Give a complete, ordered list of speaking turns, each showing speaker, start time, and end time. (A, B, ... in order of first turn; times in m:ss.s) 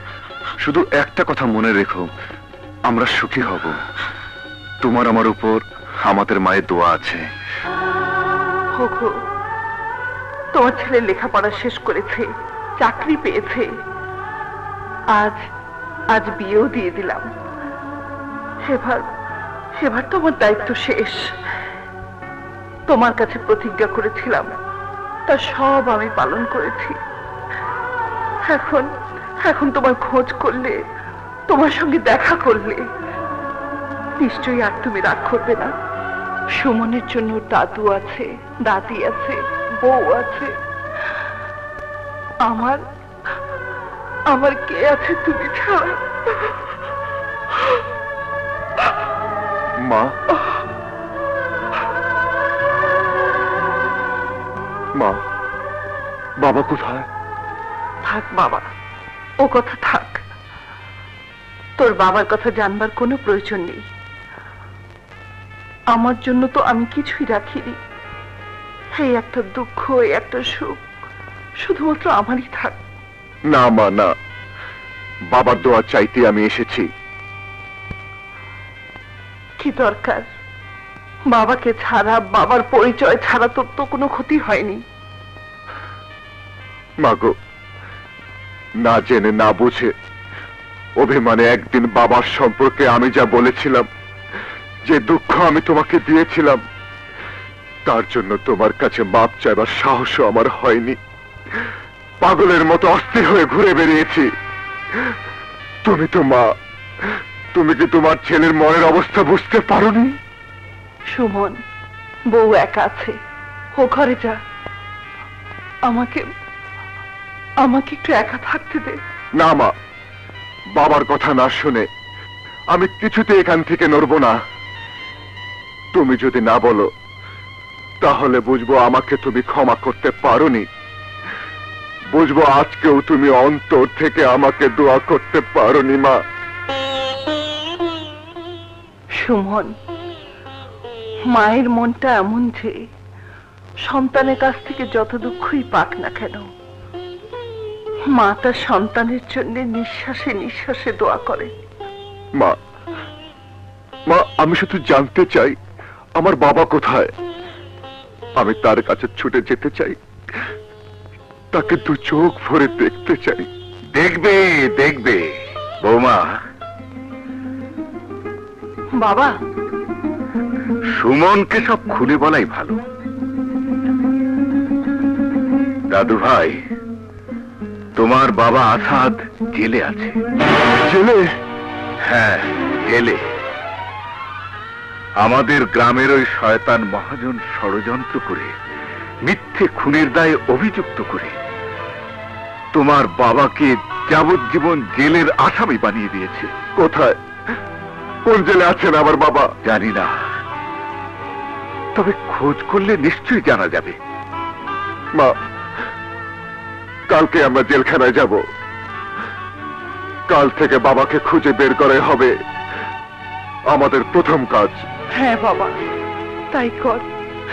0:00.6-0:02.1 A
0:02.9-0:03.8 A
0:04.8-0:07.2 A
0:08.7-0:09.2 B
0:10.5-0:12.3 B
0:12.8-0:13.7 B
0:15.1-0:15.4 B
0:16.1-0:17.2 B
0:18.6-0:19.1 B
0:19.7-0:21.2 B
0:22.9-0:24.6 B
0:25.3-0:27.0 B
0:28.4-0:28.9 B
0:29.4-0:30.8 B
0:31.5-0:32.8 B
0:34.2-0:35.7 B
0:36.5-0:40.6 B
0:42.4-0:42.8 B
0:44.3-0:46.6 B
0:49.8-0:50.1 A
0:54.9-0:55.2 A
0:56.4-0:57.1 A
0:58.0-0:58.6 B
0:59.4-1:00.2 B
1:01.8-1:03.8 B
1:05.9-1:07.8 B
1:08.9-1:10.8 B
1:11.6-1:12.8 B
1:13.5-1:14.1 A
1:15.3-1:16.9 A
1:19.6-1:20.3 B
1:21.3-1:24.8 B
1:27.0-1:27.3 A
1:28.8-1:29.9 A
1:31.0-1:33.9 A
1:34.9-1:36.6 A
1:37.8-1:41.0 A
1:42.2-1:44.3 A
1:45.8-1:46.5 A
1:47.5-1:50.2 A
1:51.1-1:51.6 B
1:52.3-1:53.1 B
1:53.8-1:54.4 B
1:55.9-1:56.2 B
1:57.6-1:59.0 B
1:59.4-1:59.7 A
2:00.7-2:01.8 A
2:02.7-2:04.3 A
2:05.9-2:06.9 A
2:08.0-2:10.6 A
2:12.1-2:16.2 A
2:19.1-2:19.7 B
2:21.3-2:22.8 B
2:23.8-2:26.5 B
2:28.1-2:31.5 B
2:34.1-2:35.6 A
2:36.2-2:37.1 A
2:38.4-2:40.0 A
2:41.5-2:43.5 A
2:43.9-2:45.2 C
2:45.8-2:46.4 C
2:49.0-2:49.3 B
2:50.9-2:52.8 C
2:55.9-2:56.5 C
2:58.0-3:00.2 C
3:00.8-3:01.3 A
3:02.0-3:03.2 C
3:05.2-3:08.5 C
3:09.2-3:11.4 C
3:12.7-3:16.5 C
3:16.8-3:17.1 A
3:18.2-3:19.5 A
3:19.6-3:20.1 C
3:21.9-3:24.0 C
3:27.1-3:28.4 A
3:30.3-3:32.3 A
3:33.7-3:34.8 A
3:35.2-3:35.7 B
3:36.5-3:37.0 B